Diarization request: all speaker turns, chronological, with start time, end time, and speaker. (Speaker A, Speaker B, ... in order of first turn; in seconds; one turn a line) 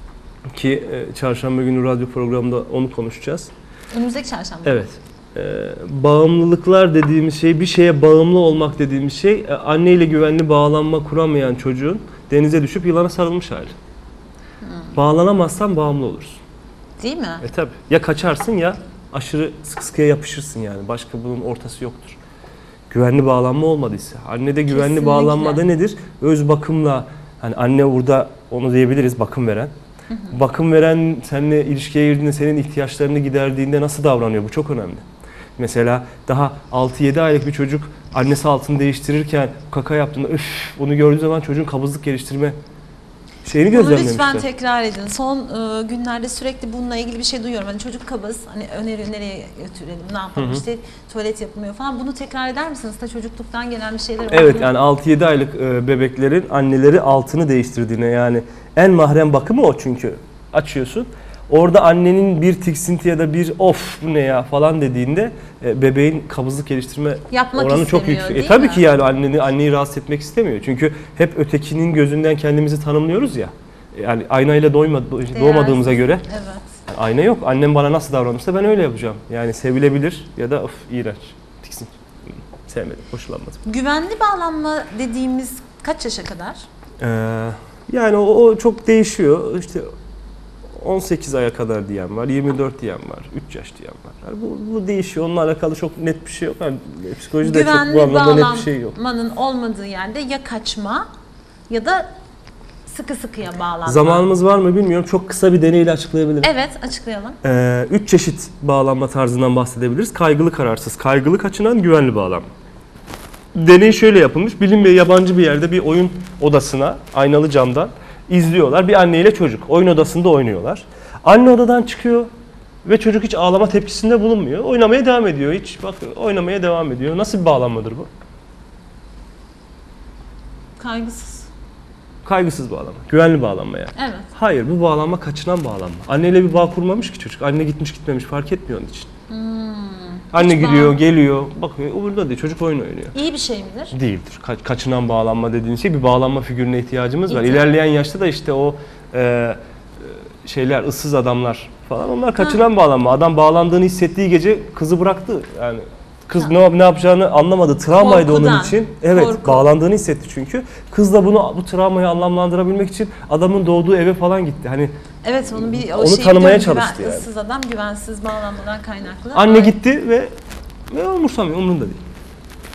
Speaker A: 0.5-3.5
Speaker B: 3.9-4.9
Speaker A: 4.7-13.7
Speaker B: 14.6-15.0
Speaker A: 14.9-16.4
Speaker B: 17.0-17.4
Speaker A: 17.4-22.2
Speaker A: 22.9-29.7
Speaker B: 24.7-25.6
Speaker B: 30.1-30.4
Speaker A: 30.3-35.0
Speaker A: 35.6-42.6
Speaker A: 43.4-44.5
Speaker B: 43.7-54.7
Speaker A: 50.4-50.6
Speaker A: 54.3-76.3
Speaker B: 67.3-68.8
Speaker B: 75.3-76.7
Speaker A: 76.9-83.6
Speaker B: 83.7-86.7
Speaker A: 87.0-89.9
Speaker A: 90.7-99.0
Speaker B: 97.4-101.1
Speaker B: 101.7-102.1
Speaker B: 102.9-104.3
Speaker A: 103.8-106.5
Speaker B: 106.4-107.4
Speaker A: 107.4-112.5
Speaker A: 113.5-122.3
Speaker A: 122.8-128.1
Speaker B: 130.8-131.5
Speaker A: 132.2-139.1
Speaker B: 134.0-134.3
Speaker B: 139.3-141.0
Speaker A: 140.3-143.2
Speaker B: 143.1-143.9
Speaker A: 143.9-164.9
Speaker B: 147.3-147.6
Speaker B: 158.0-159.7
Speaker B: 165.2-169.7
Speaker A: 165.5-167.3
Speaker A: 169.3-170.3
Speaker A: 170.9-172.0